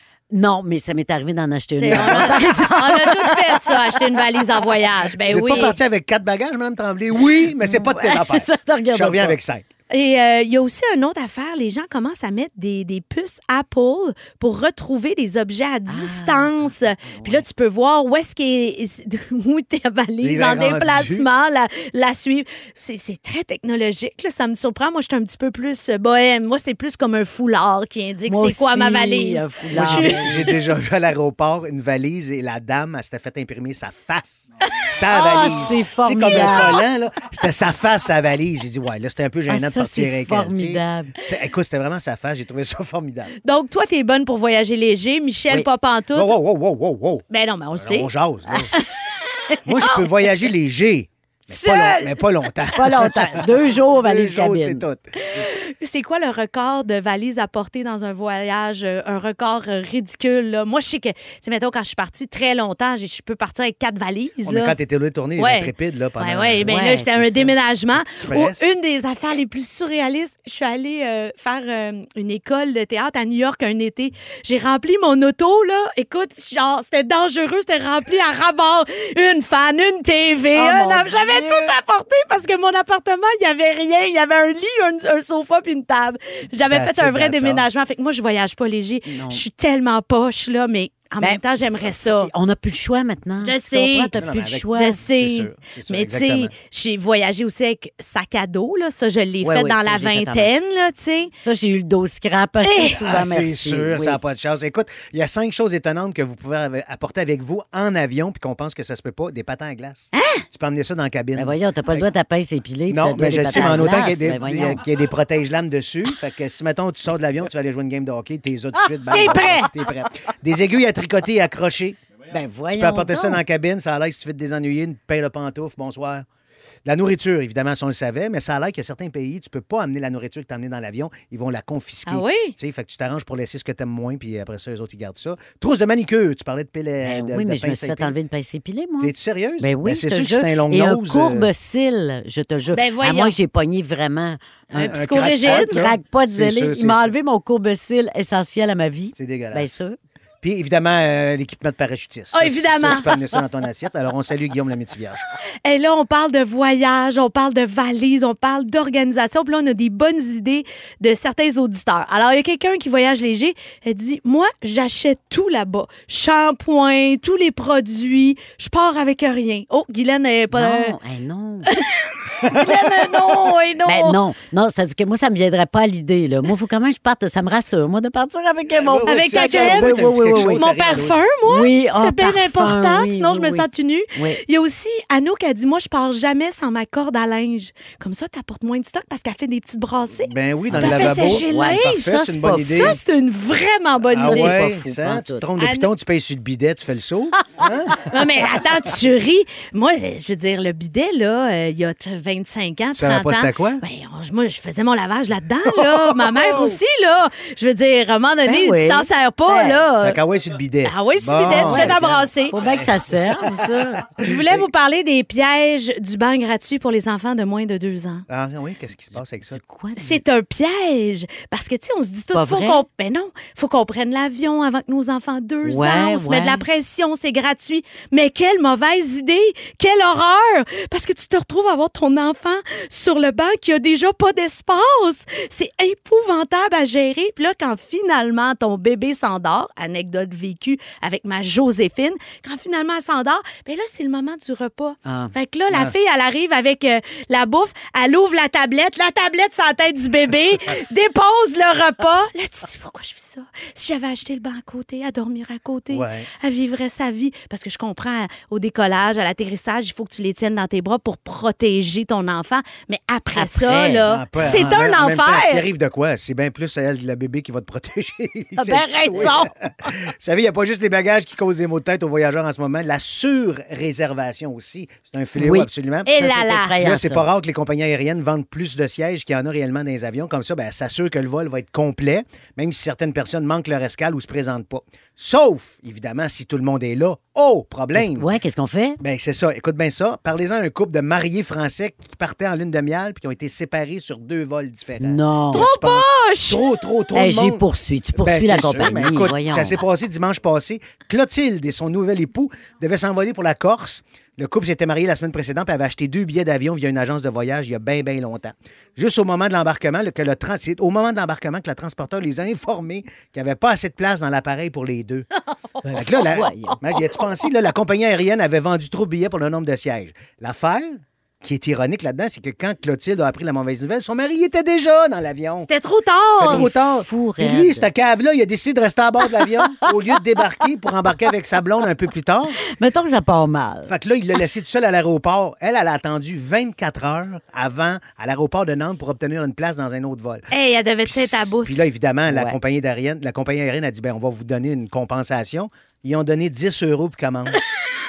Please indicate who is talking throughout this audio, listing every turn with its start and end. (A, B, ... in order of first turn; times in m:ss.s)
0:00.3-0:04.6 A
0:01.8-0:05.8 B
0:01.9-0:02.4 C
0:05.2-0:09.7 C
0:07.6-0:09.4 A
0:09.9-0:30.6 B
0:15.9-0:17.4 A
0:20.2-0:21.3 C
0:28.3-0:30.5 A
0:29.7-0:43.3 C
0:35.1-0:36.8 A
0:39.5-0:41.2 A
0:43.4-0:46.3 B
0:46.1-0:48.7 C
0:47.3-0:48.1 B
0:49.6-0:55.4 C
0:51.5-0:52.2 B
0:52.8-0:54.8 A
0:55.3-1:04.7 B
1:04.4-1:06.8 C
1:05.4-1:32.3 B
1:06.7-1:07.6 A
1:08.0-1:08.7 C
1:20.5-1:21.8 A
1:26.7-1:27.7 C
1:29.1-1:29.4 A
1:31.2-1:35.0 A
1:33.4-1:34.1 B
1:34.2-1:36.5 C
1:34.8-1:41.3 B
1:39.4-1:40.5 A
1:41.4-1:44.2 A
1:42.6-1:43.0 B
1:42.8-1:52.1 C
1:50.1-1:50.4 B
1:51.4-1:54.8 A
1:52.9-2:02.0 C
1:59.1-1:59.4 A
1:59.1-1:59.7 B
2:02.3-2:03.4 A
2:02.7-2:06.3 C
2:06.8-2:18.2 C
2:12.1-2:12.6 B
2:17.0-2:30.0 A
2:19.0-2:21.5 C
2:22.7-2:23.4 B
2:24.8-2:25.9 B
2:24.8-2:27.2 C
2:29.2-2:29.8 C
2:30.4-2:35.2 C
2:32.3-2:33.2 B
2:35.6-2:51.0 B
2:50.5-2:51.7 A
2:51.7-2:54.2 B
2:52.5-2:52.8 C
2:53.9-3:00.6 A
2:58.7-3:01.2 C
2:59.1-3:12.1 B
3:01.5-3:04.4 A
3:10.2-3:13.0 C
3:10.7-3:13.0 A
3:12.7-3:14.6 B
3:14.1-3:18.1 C
3:14.1-3:15.5 A
3:15.6-3:15.9 B
3:18.1-3:30.2 B
3:22.9-3:23.8 C
3:25.8-3:26.8 C
3:28.5-3:29.8 A
3:30.0-3:33.1 C
3:30.8-3:32.6 B
3:31.5-3:34.1 A
3:34.2-3:34.7 C
3:34.2-3:38.2 B
3:38.3-3:39.6 C
3:39.5-3:40.2 A
3:40.0-4:25.6 B
3:42.3-3:42.8 A
3:45.6-3:46.6 A
4:05.0-4:05.3 A
4:05.7-4:06.0 C
4:15.9-4:16.3 C
4:23.4-4:24.6 A
4:24.0-4:48.3 C
4:28.6-4:29.5 B
4:29.0-4:29.4 A
4:35.4-4:37.3 A
4:36.1-4:36.7 B
4:48.0-4:49.0 A
4:49.0-5:15.3 C
4:55.0-4:55.7 A
4:55.5-4:56.6 B
4:57.2-4:59.8 A
5:15.5-5:17.0 B
5:15.8-5:16.8 A
5:16.0-5:25.7 C
5:25.6-5:26.7 B
5:26.4-5:32.6 C
5:26.4-5:27.9 A
5:32.8-5:33.9 A
5:33.9-5:40.5 C
5:40.5-5:41.8 B
5:41.0-5:47.6 C
5:42.3-5:42.6 A